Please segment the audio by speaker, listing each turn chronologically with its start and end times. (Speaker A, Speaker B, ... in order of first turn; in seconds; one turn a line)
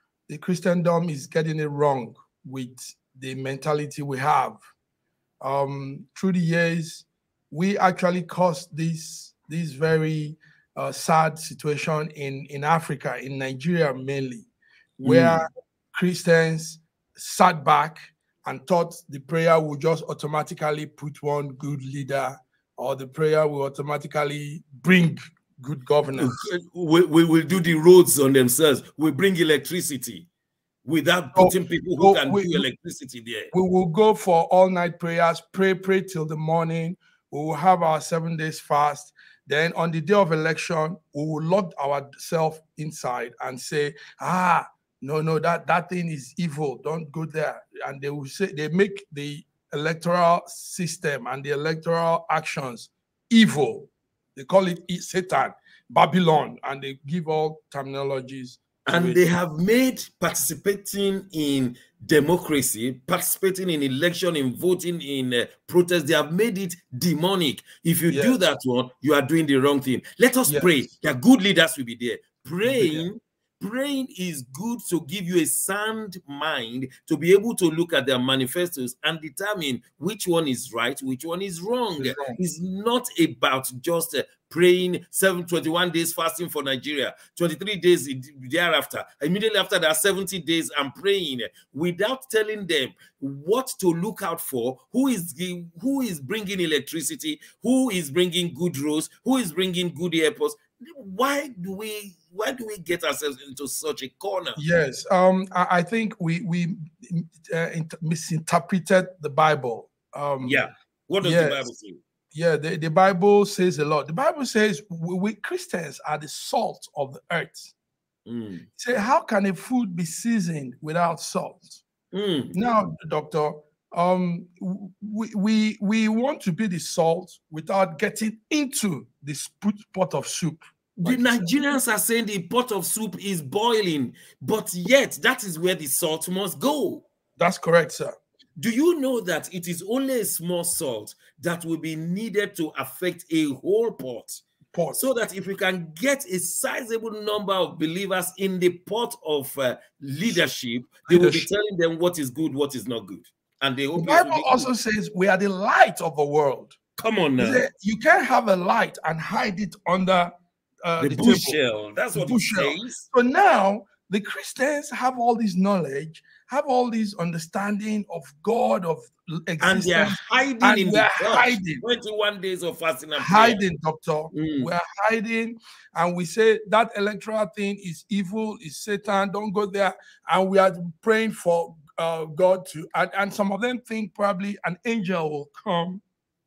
Speaker A: 0.3-4.6
Speaker A: 5.4-14.5
Speaker B: 15.0-15.4
Speaker A: 15.0-26.3
Speaker B: 26.2-30.3
Speaker B: 30.9-33.5
Speaker A: 31.4-32.7
Speaker A: 33.5-59.2
Speaker B: 58.9-104.6
Speaker A: 68.1-68.4
Speaker A: 70.5-70.8
Speaker A: 72.7-73.0
Speaker A: 82.0-82.4
Speaker A: 104.5-110.6
Speaker B: 110.4-112.0
Speaker A: 111.2-111.7
Speaker A: 112.3-117.7
Speaker B: 118.3-118.7
Speaker A: 118.8-121.8
Speaker B: 122.1-122.5
Speaker A: 122.5-131.8
Speaker B: 131.0-137.1
Speaker A: 137.4-138.1
Speaker B: 138.6-144.4
Speaker A: 144.7-145.1
Speaker B: 144.9-154.7
Speaker A: 151.1-151.5
Speaker A: 153.9-156.8
Speaker B: 157.0-157.7
Speaker A: 157.4-160.3
Speaker A: 160.8-161.6
Speaker B: 161.0-163.1
Speaker A: 162.1-171.8
Speaker B: 169.6-173.6
Speaker A: 173.2-186.0
Speaker B: 174.3-174.7